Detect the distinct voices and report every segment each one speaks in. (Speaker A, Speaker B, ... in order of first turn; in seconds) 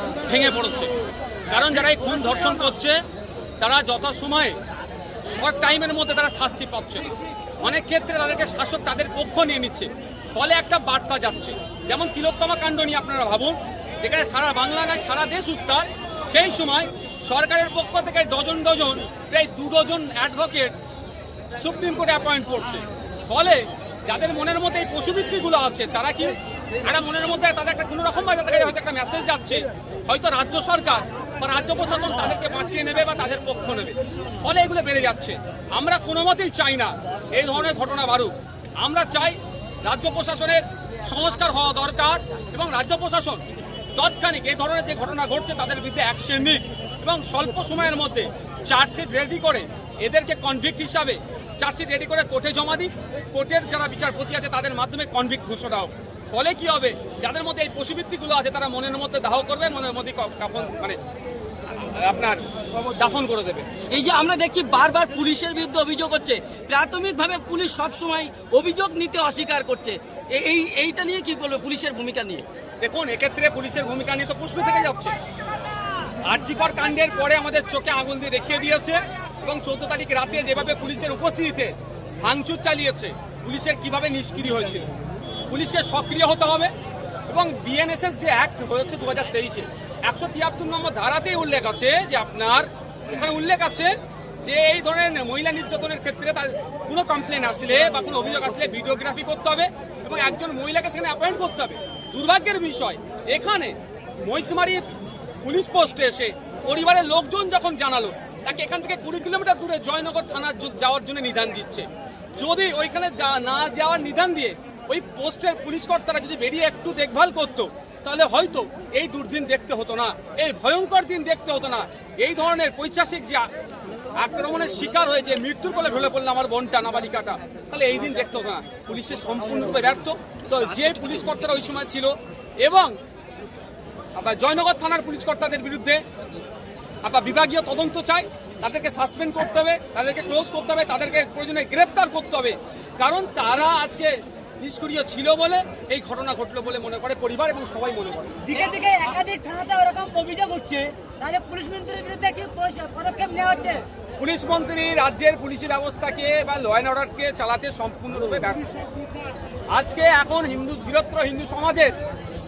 Speaker A: 0.3-0.9, 1.5-3.0, 3.6-4.5, 5.3-20.8, 21.6-43.4, 44.0-61.0, 61.7-63.7, 72.8-75.1, 76.2-84.9, 85.5-86.7, 87.3-93.9, 94.4-104.8, 105.4-111.9, 112.4-123.5, 124.1-132.9, 134.1-136.0, 137.0-148.4, 154.2-158.7, 159.7-161.9
Speaker B: 63.9-72.5, 130.6-131.6
Speaker C: 148.4-153.8